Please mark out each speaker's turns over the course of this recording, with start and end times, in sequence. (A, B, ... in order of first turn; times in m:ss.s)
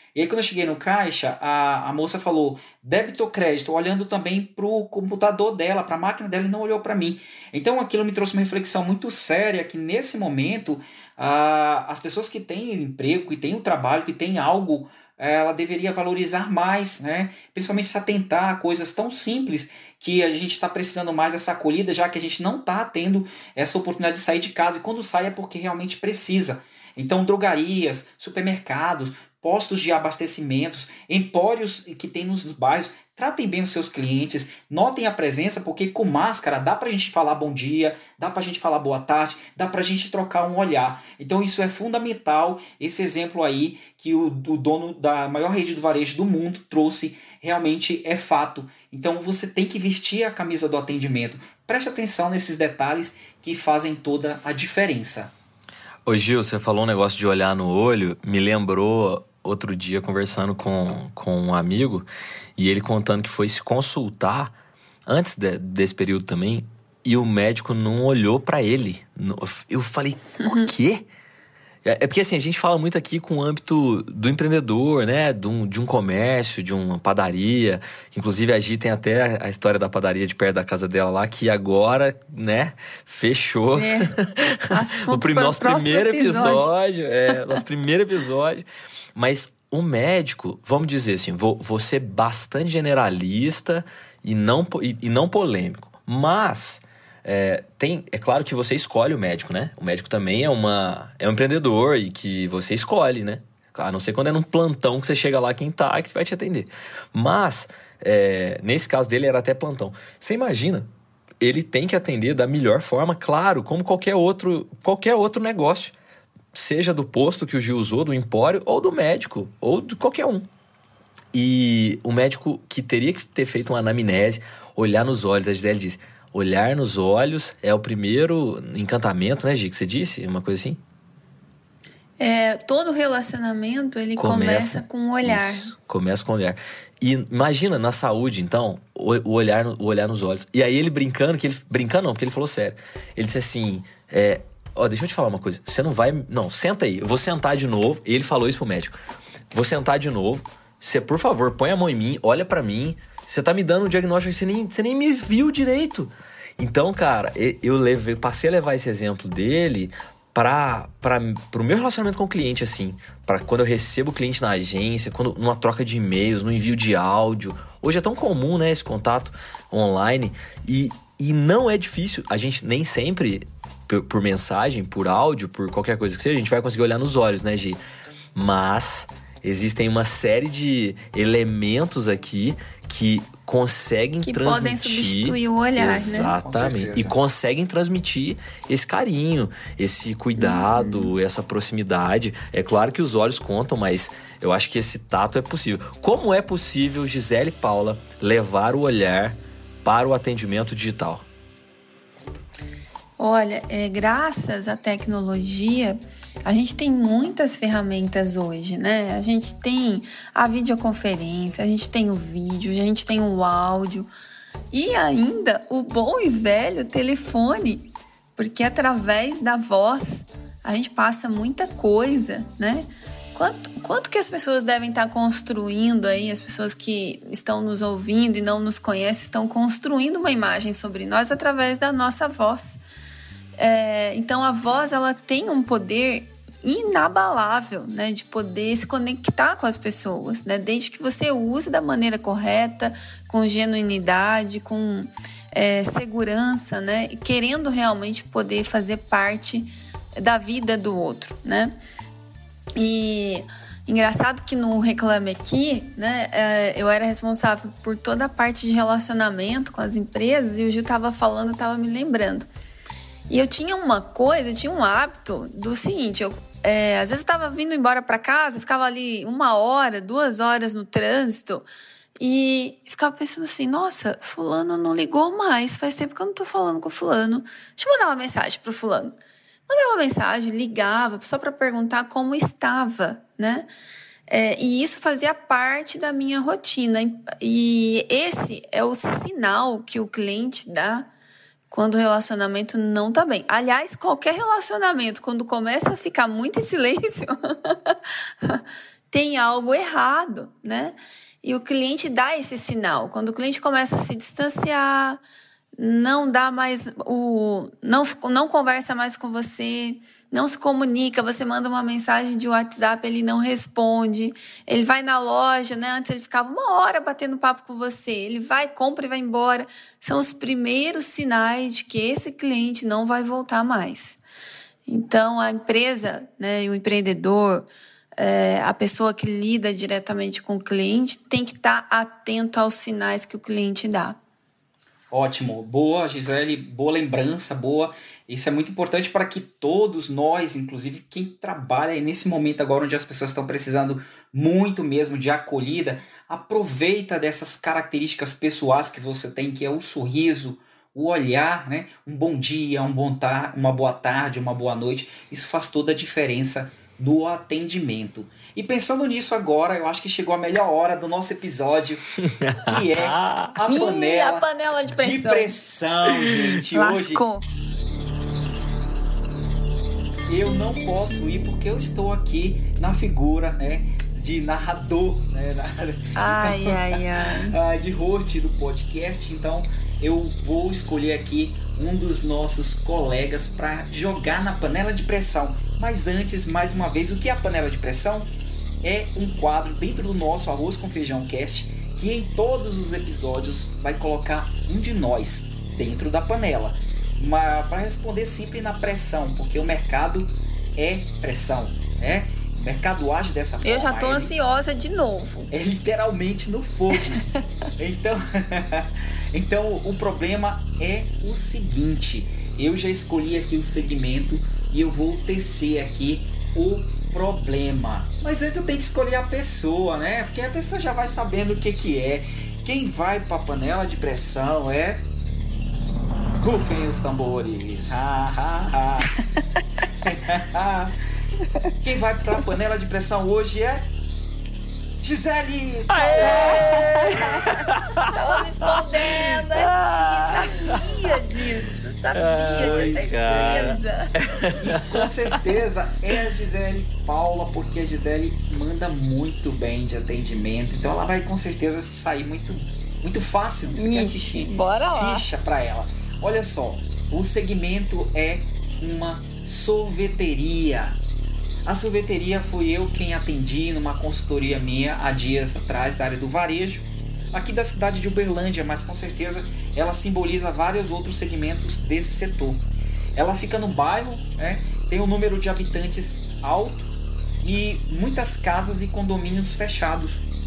0:00.2-0:55.3 A
0:56.1-1:04.5 B
1:05.1-1:11.1 B
1:10.4-1:10.7 C
1:11.8-1:50.9 B
1:23.7-1:26.7 C
1:27.3-1:27.6 C
1:51.4-1:56.0 B
1:56.5-2:00.5 B
2:01.3-2:10.8 B
2:12.2-2:15.7 C
2:14.2-2:29.0 B
2:29.5-2:57.8 B
2:58.4-3:21.2 B
3:04.2-3:06.4 C
3:06.1-3:07.2 A
3:10.4-3:11.1 C
3:23.2-3:34.1 C
3:34.7-3:52.8 C
3:53.6-4:11.8 C
4:12.8-4:22.5 C
4:23.3-4:31.7 C
4:32.2-4:39.2 C
4:39.7-4:43.7 C
4:44.3-4:51.1 C
4:51.7-5:05.2 C
5:05.8-5:24.2 C
5:24.9-5:27.7 C
5:28.2-5:34.2 C
5:35.1-6:02.0 A
6:02.2-6:03.6 B
6:02.6-6:07.2 A
6:03.7-6:05.5 C
6:06.7-6:07.4 C
6:10.3-6:28.3 A
6:16.2-6:17.6 C
6:28.8-6:44.3 A
6:43.6-6:45.5 C
6:45.5-6:47.3 A
6:47.8-7:05.0 A
7:06.4-7:09.2 A
7:10.0-7:10.9 A
7:11.8-7:13.9 A
7:15.0-7:17.0 A
7:15.9-7:21.2 B
7:16.2-7:24.2 C
7:22.1-7:25.1 B
7:24.6-7:41.0 A
7:33.8-7:35.3 C
7:41.7-7:56.9 A
7:57.4-8:00.3 A